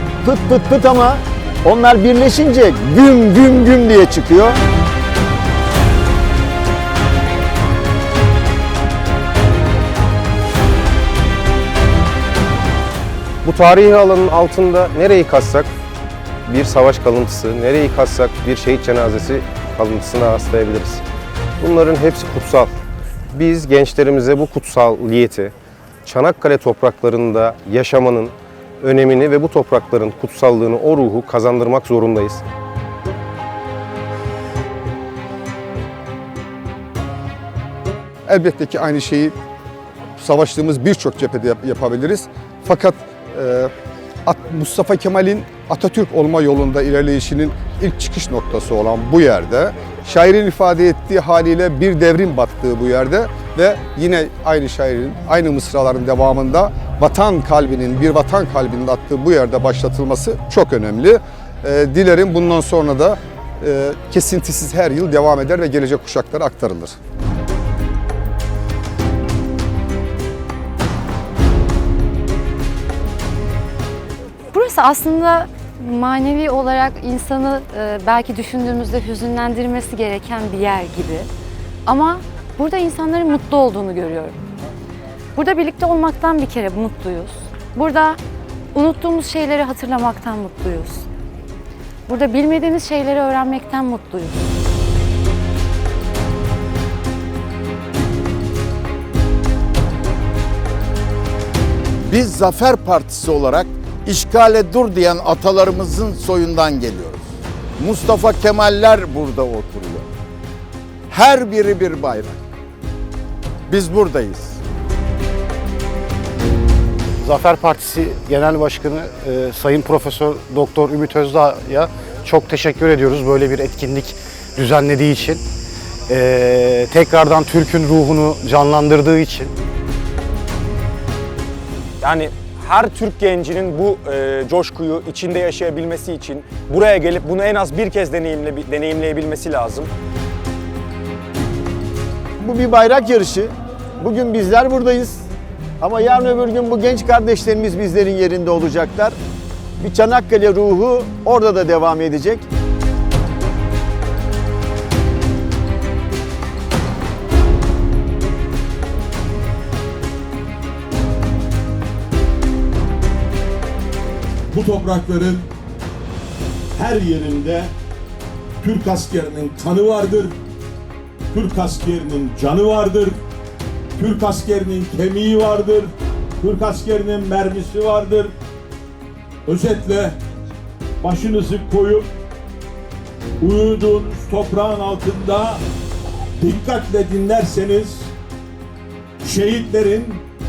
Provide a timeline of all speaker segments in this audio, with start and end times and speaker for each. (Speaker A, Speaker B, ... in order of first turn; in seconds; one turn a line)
Speaker A: 0.2-4.6
Speaker B: 13.4-15.7
Speaker B: 16.5-21.0
Speaker B: 21.6-22.7
Speaker B: 23.3-25.5
Speaker B: 26.1-32.4
Speaker C: 38.3-39.4
Speaker C: 40.2-43.7
Speaker C: 44.3-67.0
Speaker D: 74.5-81.3
Speaker D: 81.9-84.4
Speaker D: 85.4-88.2
Speaker D: 88.7-91.1
Speaker D: 92.1-94.4
Speaker E: 102.1-107.2
Speaker E: 107.8-110.0
Speaker E: 111.1-112.4
Speaker E: 113.7-114.6
Speaker F: 117.2-125.4
Speaker F: 126.1-129.5
Speaker G: 132.0-139.9
Speaker A: 142.4-145.3
Speaker A: 145.8-149.2
Speaker A: 149.8-152.4
Speaker H: 164.5-165.5
Speaker H: 166.8-167.7
Speaker H: 168.6-170.4
Speaker H: 171.3-173.2
Speaker H: 174.0-178.3
Speaker H: 179.5-180.2
Speaker H: 181.0-182.1
Speaker H: 183.4-185.6
Speaker H: 186.4-188.1
Speaker H: 189.2-190.2